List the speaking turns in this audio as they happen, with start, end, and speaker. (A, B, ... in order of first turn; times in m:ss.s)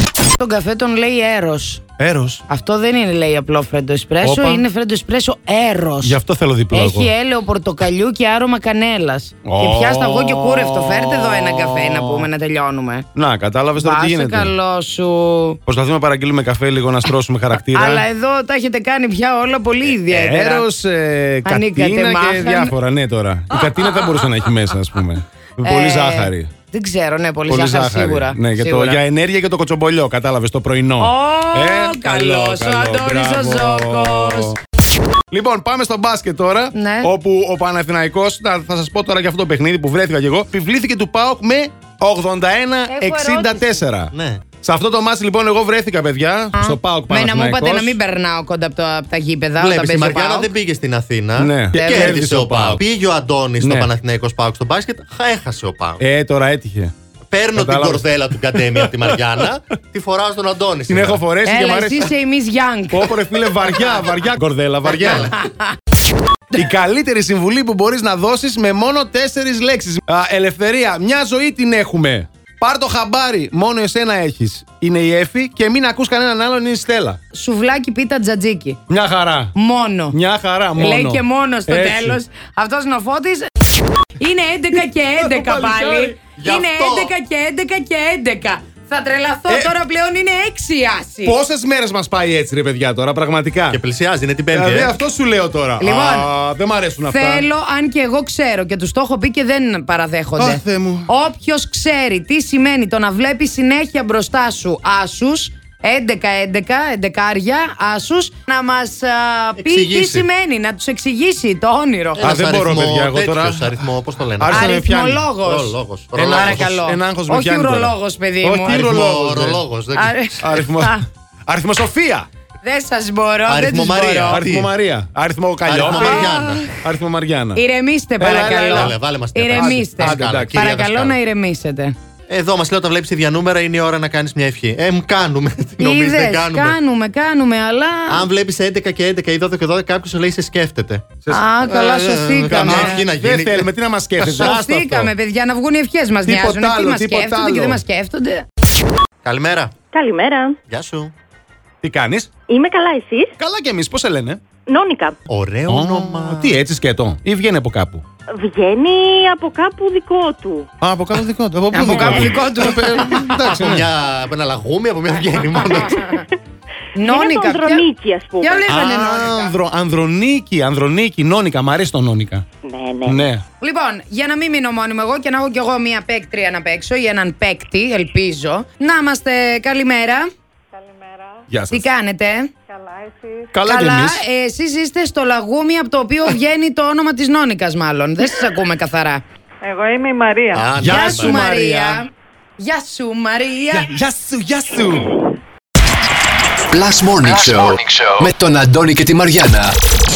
0:00.4-0:01.8 A
0:02.0-0:02.4 B
0:02.5-0:06.1 A
0:04.2-0:04.6 B
0:06.0-0:07.1 B
0:06.7-0:13.1 A
0:09.4-0:12.3 B
0:13.1-0:14.5 B
0:13.8-0:15.6 A
0:15.7-0:18.0 B
0:17.7-0:20.6 A
0:19.9-0:26.5 B
0:21.4-0:22.7 A
0:23.8-0:24.1 A
0:25.6-0:29.0 A
0:27.5-0:34.5 B
0:31.0-0:34.6 A
0:35.3-0:48.0 B
0:36.7-0:37.1 A
0:42.9-0:43.8 A
0:44.1-0:44.5 C
0:46.5-0:50.5 A
0:49.6-0:56.0 C
0:51.4-0:52.8 B
0:51.7-0:52.2 A
0:53.6-0:53.9 B
0:56.0-0:56.9 B
0:57.3-1:01.2 C
0:57.5-0:59.4 B
1:00.9-1:02.1 B
1:01.4-1:03.1 A
1:02.9-1:05.3 B
1:05.0-1:05.3 C
1:05.1-1:05.4 A
1:06.5-1:17.2 B
1:17.3-1:18.8 A
1:18.9-1:19.5 B
1:19.6-1:20.1 A
1:20.1-1:22.2 B
1:20.8-1:23.5 A
1:24.2-1:31.4 A
1:25.2-1:26.2 B
1:26.4-1:27.1 C
1:29.5-1:29.7 B
1:31.2-1:33.8 B
1:33.7-1:35.0 C
1:34.5-1:37.5 B
1:35.8-1:36.3 A
1:37.1-1:52.3 A
1:40.4-1:41.1 B
1:49.6-1:50.3 C
1:52.2-1:54.7 C
1:52.2-1:55.3 B
1:54.5-1:58.8 A
1:55.4-1:56.7 C
1:56.1-1:59.6 B
1:58.6-2:00.2 C
1:59.9-2:01.0 A
2:00.4-2:02.3 B
2:02.6-2:04.4 A
2:03.5-2:04.7 C
2:04.3-2:07.6 B
2:05.6-2:06.7 C
2:05.9-2:06.3 A
2:07.5-2:11.9 A
2:08.2-2:08.9 B
2:08.6-2:11.2 C
2:09.5-2:10.7 B
2:12.3-2:16.8 C
2:15.8-2:18.2 A
2:18.1-2:21.1 C
2:21.2-2:25.1 B
2:21.3-2:23.0 A
2:21.8-2:24.5 C
2:24.4-2:28.4 A
2:26.2-2:27.8 B
2:29.2-2:29.7 C
2:29.9-2:30.6 D
2:30.7-2:31.1 C
2:31.8-2:32.3 B
2:32.5-2:33.3 D
2:33.4-2:34.4 B
2:34.7-2:35.1 D
2:35.3-2:36.6 C
2:35.7-2:38.0 B
2:38.3-2:40.7 D
2:40.8-2:43.9 B
2:41.7-2:43.6 A
2:41.7-2:42.6 C
2:43.5-2:46.2 C
2:46.9-2:47.8 A
2:47.0-2:48.7 D
2:48.4-2:49.6 A
2:48.7-2:52.4 B
2:52.6-2:53.3 D
2:53.0-2:53.4 B
2:53.6-3:00.2 A
3:00.8-3:01.4 E
3:01.5-3:01.8 B
3:01.7-3:02.5 A
3:02.7-3:03.4 E
3:03.5-3:04.2 B
3:03.6-3:09.2 A
3:09.6-3:10.7 E
3:10.5-3:11.4 C
3:10.8-3:12.0 B
3:10.8-3:12.0 A
3:12.6-3:13.9 A
3:13.7-3:15.1 B
3:16.7-3:19.7 F